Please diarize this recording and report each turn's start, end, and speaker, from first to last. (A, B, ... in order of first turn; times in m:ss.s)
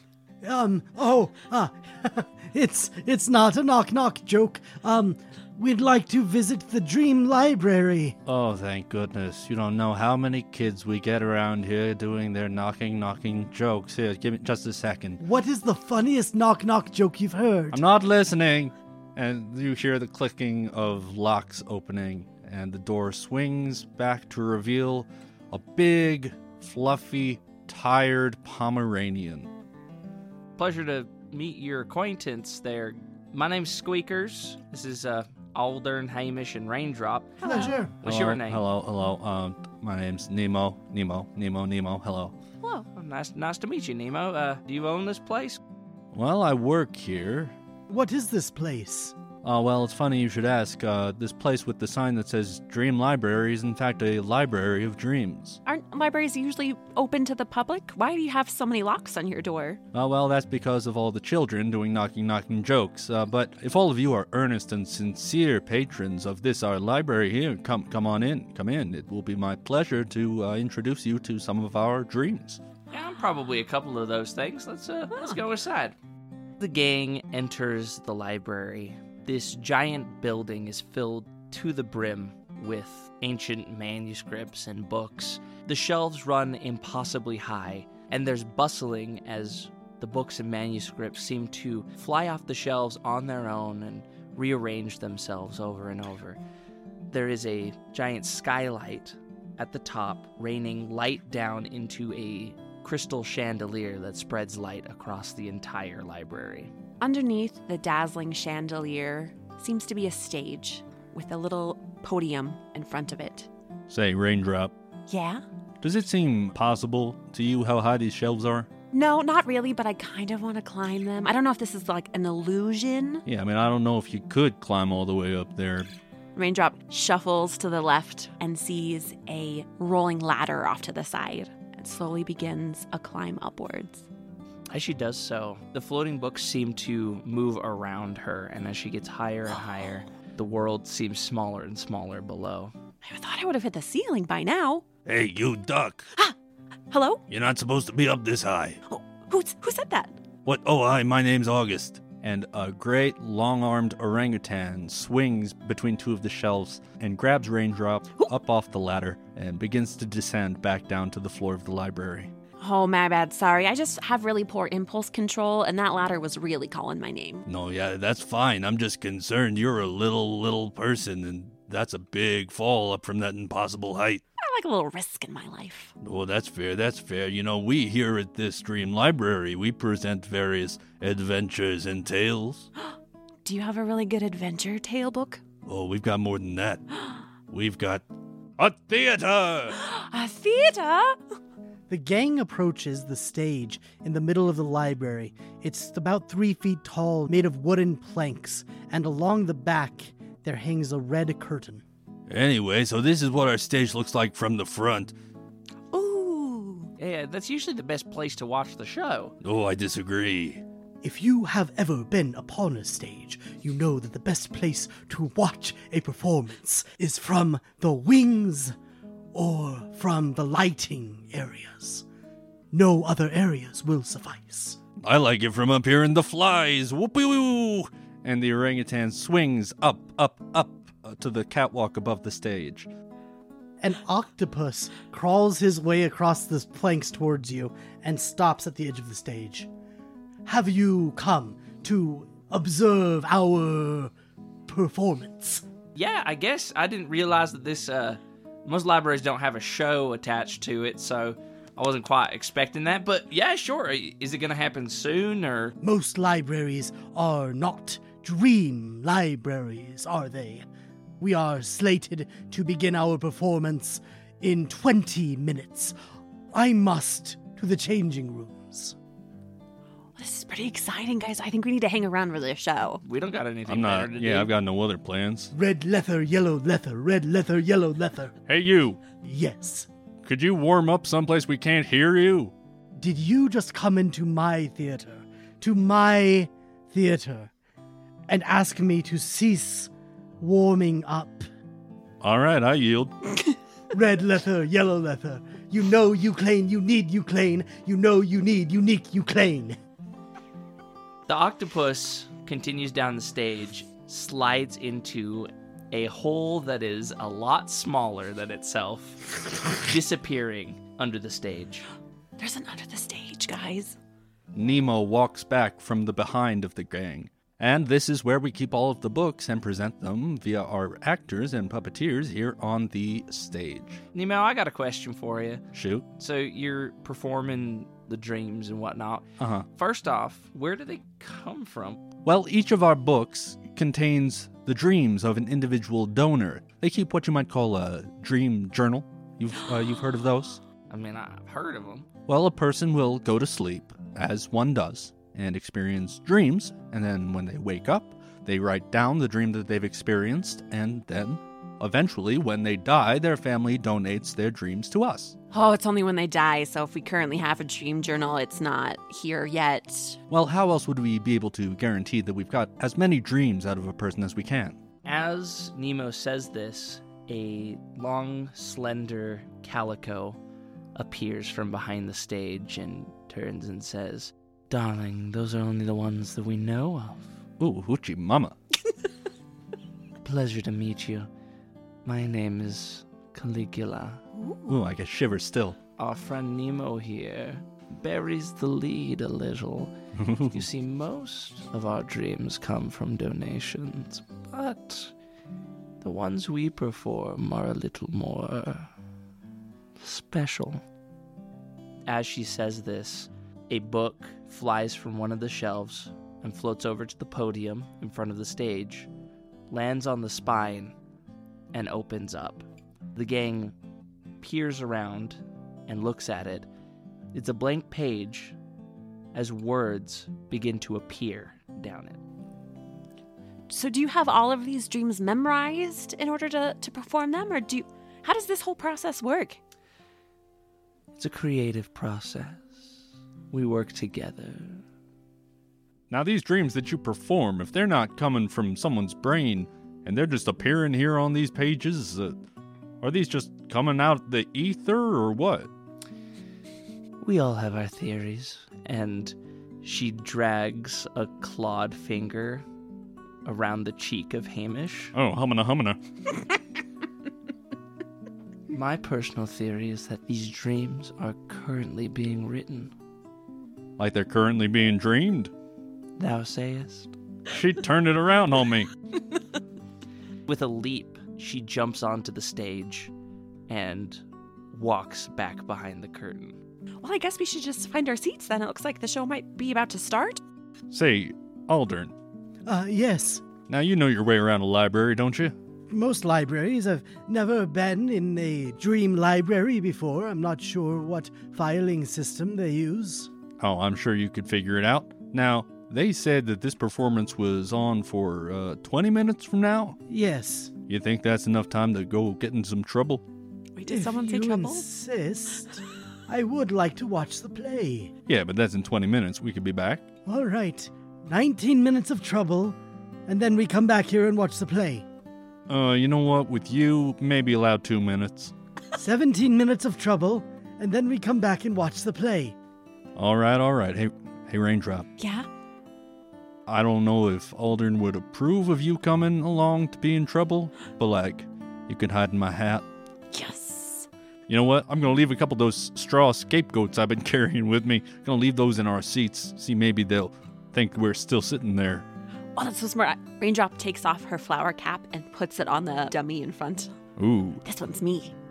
0:00.4-0:08.2 A
0:08.2-0:15.2 B
0:15.2-0:17.8 A
0:17.7-0:29.5 B
0:30.6-0:38.6 C
0:37.4-0:37.8 D
0:37.4-0:37.9 A
0:38.0-0:42.3 B
0:42.6-0:42.9 D
0:42.9-0:45.6 C
0:46.1-0:47.5 B
0:47.9-0:49.1 A
0:49.4-0:55.6 B
0:55.6-0:59.8 D
0:59.9-1:12.6 B
1:12.9-1:16.0 C
1:16.6-1:36.4 C
1:37.1-1:46.7 C
1:47.0-1:53.5 D
1:53.9-1:54.7 B
1:55.1-1:55.4 D
1:55.8-1:58.7 B
1:58.9-2:03.2 D
2:03.2-2:05.9 B
2:06.3-2:14.1 D
2:14.7-2:22.7 C
2:23.0-2:24.8 D
2:25.0-2:26.1 B
2:26.9-2:27.2 D
2:27.3-2:28.8 B
2:28.9-2:30.2 D
2:30.4-2:42.3 B
2:42.6-2:47.4 D
2:47.4-2:54.2 B
2:54.4-2:55.9 D
2:56.0-3:02.7 B
3:02.8-3:05.4 D
3:05.6-3:06.8 B
3:07.5-3:08.0 B
3:08.6-3:09.8 B
3:09.8-3:11.2 D
3:11.9-3:21.8 A
3:22.3-3:25.1 B
3:25.9-3:26.9 D
3:27.0-3:29.3 C
3:29.4-3:30.6 B
3:31.0-3:38.8 A
3:39.3-3:42.0 A
3:42.7-3:44.8 A
3:45.0-3:52.9 B
3:53.8-3:59.7 A
4:00.4-4:04.1 A
4:04.7-4:05.6 A
4:05.9-4:15.8 C
4:15.8-4:20.6 A
4:21.2-4:25.9 A
4:26.5-4:29.0 A
4:30.2-4:33.0 D
4:33.0-4:34.5 C
4:33.7-4:35.5 B
4:35.5-4:38.3 A
4:38.5-4:39.0 B
4:39.2-4:39.9 A
4:40.2-4:42.5 B
4:42.9-4:47.5 A
4:48.3-4:51.5 A
4:52.2-4:53.1 B
4:53.9-4:59.8 A
5:01.3-5:11.8 C
5:12.4-5:14.0 D
5:14.5-5:24.0 B
5:24.1-5:25.6 C
5:25.7-5:26.0 B
5:26.2-5:29.2 C
5:29.4-5:29.7 B
5:29.8-5:32.0 C
5:32.2-5:40.6 B
5:40.9-5:42.1 C
5:42.3-5:55.4 B
5:55.5-6:00.2 D
6:00.3-6:04.8 B
6:05.0-6:10.4 C
6:10.9-6:17.4 C
6:17.6-6:18.5 B
6:20.2-6:21.3 C
6:22.0-6:24.2 C
6:24.4-6:24.7 D
6:24.7-6:25.8 B
6:26.0-6:29.9 C
6:30.2-6:30.6 B
6:30.5-6:35.1 C
6:36.0-6:38.9 C
6:40.0-6:40.8 C
6:42.1-6:49.1 C
6:49.7-6:50.9 C
6:51.7-6:53.7 C
6:54.4-6:56.7 C
6:57.3-6:58.6 C
6:59.3-7:02.2 C
7:03.7-7:09.6 D
7:11.2-7:13.0 C
7:13.5-7:14.8 C
7:16.1-7:22.4 B
7:23.0-7:25.7 B
7:27.2-7:32.6 C
7:33.4-7:35.1 C
7:35.1-7:36.0 B
7:38.7-7:42.9 C
7:44.0-7:45.5 B
7:46.2-7:47.1 C
7:47.5-7:48.9 B
7:50.5-7:53.1 C
7:53.7-7:56.6 C
7:57.0-8:00.4 D
8:00.9-8:02.1 B
8:02.6-8:03.4 A
8:03.7-8:05.5 B
8:05.9-8:13.3 A
8:13.6-8:20.0 B
8:20.1-8:20.7 A
8:20.9-8:23.2 B
8:23.8-8:24.8 D
8:23.9-8:28.1 A
8:28.3-8:30.0 B
8:30.2-8:35.0 A
8:35.7-8:38.5 B
8:38.9-8:42.6 A
8:43.2-8:45.1 B
8:45.2-8:45.4 D
8:46.6-8:52.8 B
8:53.3-8:54.1 D
8:54.5-9:02.0 B
9:02.6-9:06.9 D
9:07.2-9:07.6 B
9:07.6-9:08.3 D